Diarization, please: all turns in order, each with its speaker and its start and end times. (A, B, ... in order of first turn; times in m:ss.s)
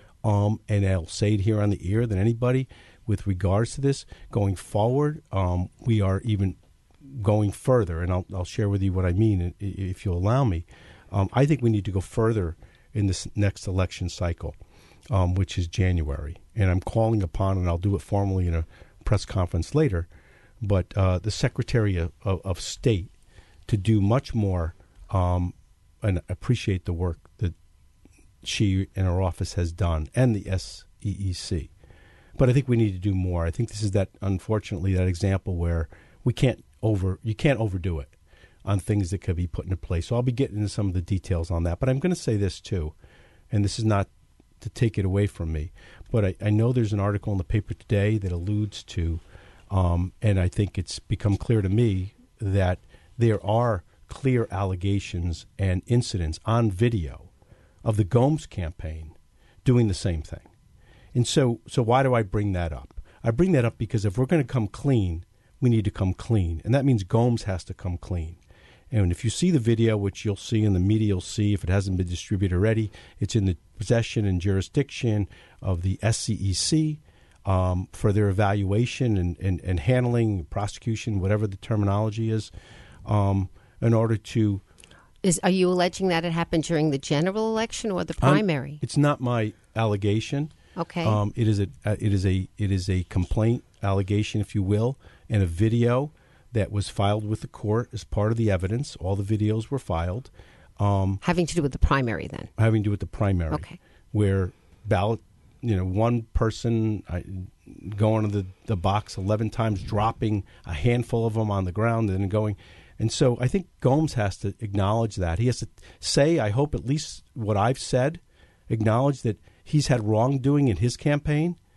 0:00.2-0:14.6 A
0:15.1-0:20.1 A
0:20.6-0:23.1 A
0:23.7-0:27.6 A
0:28.4-0:31.7 A
0:32.4-0:38.1 A
0:38.6-0:42.9 A
0:43.5-0:57.3 A
0:57.8-1:00.5 A
1:01.1-1:08.4 A
1:08.9-1:22.5 A
1:23.0-1:24.6 A
1:25.2-1:28.8 B
1:28.2-1:41.2 A
1:30.8-1:31.2 B
1:41.2-1:42.5 B
1:42.6-2:01.6 A
1:43.5-1:43.8 B